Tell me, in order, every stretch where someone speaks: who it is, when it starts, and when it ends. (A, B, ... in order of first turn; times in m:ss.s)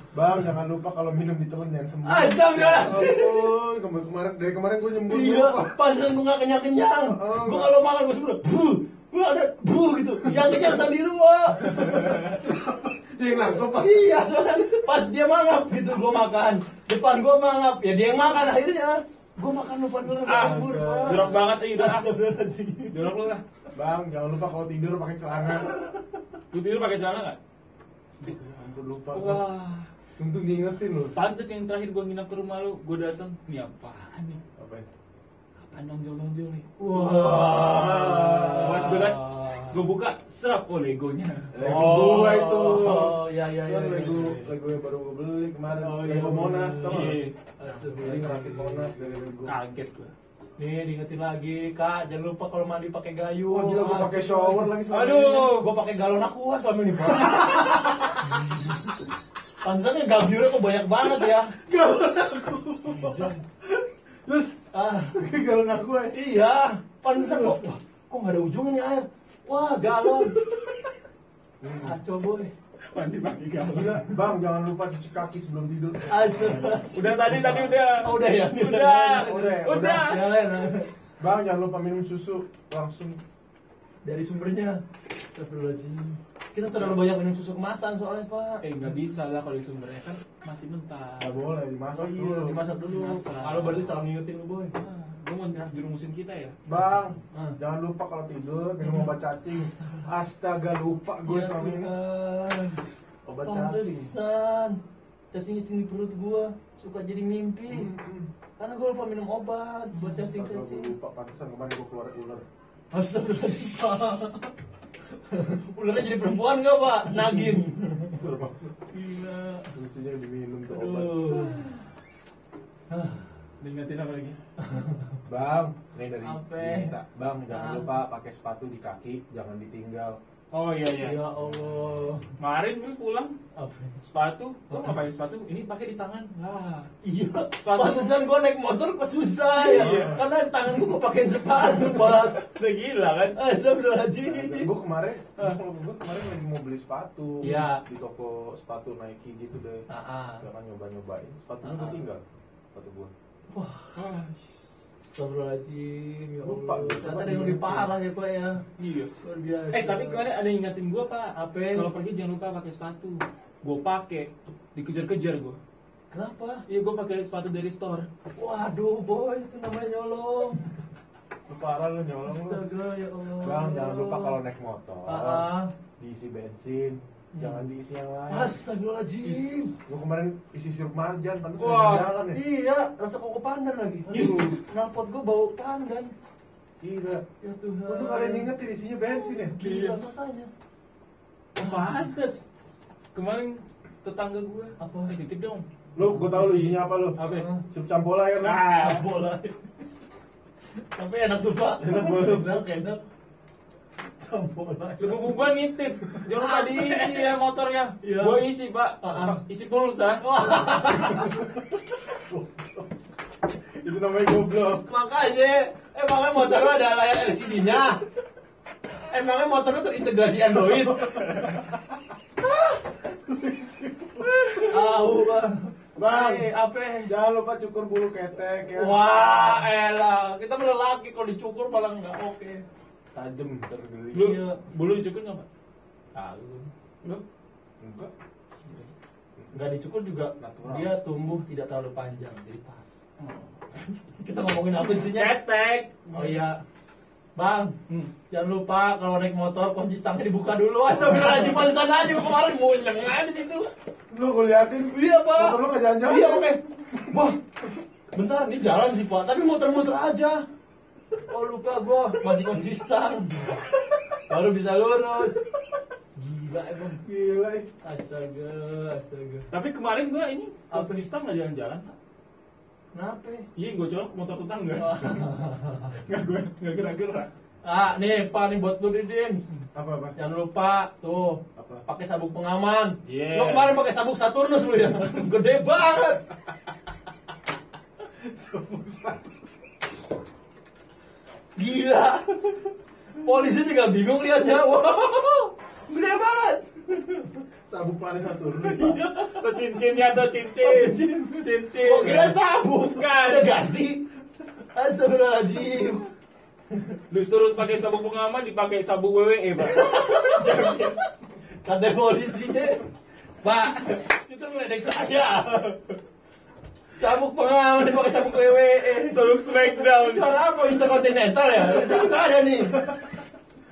0:00.1-0:05.8 A
0:02.0-0:03.5 B
0:05.0-0:12.5 B
0:07.1-0:07.8 A
0:10.3-0:10.7 A
0:11.9-0:12.3 C
0:12.4-0:14.1 A
0:13.3-0:23.1 B
0:20.2-0:21.4 A
0:20.2-0:22.1 C
0:22.9-0:23.4 C
0:23.7-0:25.8 A
0:26.5-0:27.4 C
0:28.1-0:29.5 A
0:29.1-0:29.9 C
0:30.2-0:31.2 A
0:31.1-0:34.4 C
0:34.6-0:34.8 A
0:35.6-0:36.7 C
0:36.8-0:39.8 B
0:36.8-0:39.0 A
0:38.6-0:42.2 C
0:41.5-0:47.2 A
0:41.6-0:44.5 B
0:45.7-0:49.3 B
0:46.8-0:48.0 C
0:48.0-0:49.6 A
0:49.4-0:50.1 C
0:50.6-0:58.8 B
0:53.5-0:55.4 A
0:54.9-0:55.7 C
0:59.6-1:03.4 B
1:01.7-1:04.6 A
1:04.7-1:05.2 B
1:05.1-1:06.2 A
1:06.1-1:10.3 B
1:11.6-1:12.0 A
1:11.8-1:12.5 B
1:12.8-1:14.2 C
1:13.7-1:16.8 A
1:16.1-1:20.9 B
1:16.9-1:20.4 C
1:19.2-1:20.1 A
1:21.2-1:23.2 A
1:24.0-1:28.6 B
1:28.6-1:31.4 C
1:31.2-1:32.6 A
1:31.9-1:34.7 B
1:32.8-1:34.0 C
1:34.7-1:36.6 C
1:36.6-1:41.9 A
1:37.3-1:37.6 B
1:38.8-1:40.2 B
1:41.2-1:42.8 B
1:43.2-1:44.1 A
1:43.4-1:44.8 B
1:45.3-1:47.9 B
1:47.7-1:48.3 A
1:48.6-1:50.9 B
1:50.0-1:52.4 A
1:52.9-1:54.5 B
1:55.2-1:58.2 B
1:58.1-1:58.7 A
1:58.9-1:59.7 B
1:59.7-2:01.5 A
2:00.6-2:01.7 B
2:02.9-2:03.3 B
2:03.6-2:04.4 C
2:04.6-2:05.2 B
2:05.2-2:10.2 A
2:06.2-2:06.9 B
2:07.5-2:08.0 B
2:10.5-2:11.2 C
2:11.0-2:12.2 B
2:12.4-2:13.4 C
2:13.5-2:14.0 B
2:14.0-2:16.9 C
2:17.0-2:22.5 B
2:17.6-2:18.2 C
2:19.6-2:20.2 C
2:19.6-2:20.3 A
2:21.7-2:23.4 C
2:23.3-2:24.7 B
2:24.2-2:29.8 A
2:27.4-2:27.8 B
2:29.9-2:30.4 B
2:30.4-2:33.1 A
2:31.6-2:32.1 B
2:33.5-2:34.0 B
2:33.9-2:34.7 C
2:35.0-2:38.6 B
2:36.4-2:38.0 A
2:38.8-2:39.1 C
2:39.2-2:40.2 B
2:39.7-2:45.6 C
2:41.3-2:41.9 B
2:46.1-2:46.6 B
2:46.7-2:48.1 C
2:48.4-2:50.6 B
2:51.5-2:52.6 A
2:52.2-2:54.4 B
2:53.4-2:58.6 A
2:55.0-2:55.7 B
2:57.3-2:57.6 B
2:58.3-2:59.7 B
2:59.2-2:59.7 C
2:59.8-3:02.4 A
3:01.6-3:02.0 C
3:01.9-3:06.1 B
3:04.0-3:04.6 A
3:04.1-3:04.6 C
3:06.8-3:07.2 A
3:07.4-3:08.5 B
3:07.8-3:09.6 A
3:09.3-3:10.5 B
3:09.6-3:10.0 C
3:11.5-3:12.4 C
3:11.6-3:12.0 B
3:13.1-3:15.6 C
3:14.8-3:15.1 B
3:15.9-3:18.7 A
3:16.0-3:17.6 B
3:17.2-3:17.5 C
3:18.4-3:19.0 C
3:18.7-3:19.6 B
3:20.8-3:23.0 B
3:21.8-3:22.6 A
3:24.0-3:25.2 B
3:25.0-3:30.2 C
3:26.3-3:27.3 B
3:28.0-3:28.4 B
3:29.0-3:29.4 B
3:30.2-3:31.4 B
3:31.0-3:31.4 A
3:32.3-3:32.8 A
3:33.7-3:34.8 A
3:34.7-3:38.0 B
3:39.1-3:41.4 B
3:40.7-3:41.8 A
3:42.4-3:42.8 B
3:43.1-3:45.2 A
3:44.7-3:47.1 B
3:46.0-3:46.5 A
3:47.0-3:49.6 A
3:48.7-3:52.6 B
3:53.1-3:54.4 A
3:54.1-3:55.5 C
3:54.2-3:54.6 B
3:56.1-3:56.7 B
3:57.8-3:58.1 A
3:59.4-3:59.7 A
3:59.5-4:02.9 B
4:00.4-4:01.0 A
4:03.2-4:03.6 C
4:03.8-4:05.4 B
4:04.8-4:06.4 C
4:06.1-4:06.6 B
4:07.4-4:07.8 B
4:08.3-4:13.7 B
4:10.9-4:11.8 A
4:14.1-4:17.3 A
4:14.9-4:17.4 B
4:18.1-4:20.4 B
4:21.2-4:23.6 B
4:24.3-4:25.4 B
4:26.2-4:27.0 B
4:27.0-4:27.7 A
4:27.8-4:29.5 B
4:29.5-4:31.9 C
4:30.7-4:31.1 B
4:32.9-4:33.4 B
4:33.6-4:37.3 C
4:34.8-4:36.0 B
4:37.6-4:39.4 B
4:39.7-4:40.2 A
4:40.2-4:46.2 B
4:41.6-4:41.8 A
4:43.0-4:43.8 C
4:48.2-4:49.3 A
4:51.6-4:57.3 B
4:57.7-4:59.0 A
4:58.6-4:59.5 B
4:59.2-5:02.4 C
5:00.6-5:04.0 B
5:02.9-5:03.7 C
5:04.6-5:06.1 B
5:07.1-5:11.0 C
5:09.6-5:11.0 B
5:11.6-5:12.8 B
5:13.4-5:16.0 B
5:17.0-5:22.8 B
5:19.0-5:20.3 C
5:22.7-5:23.2 A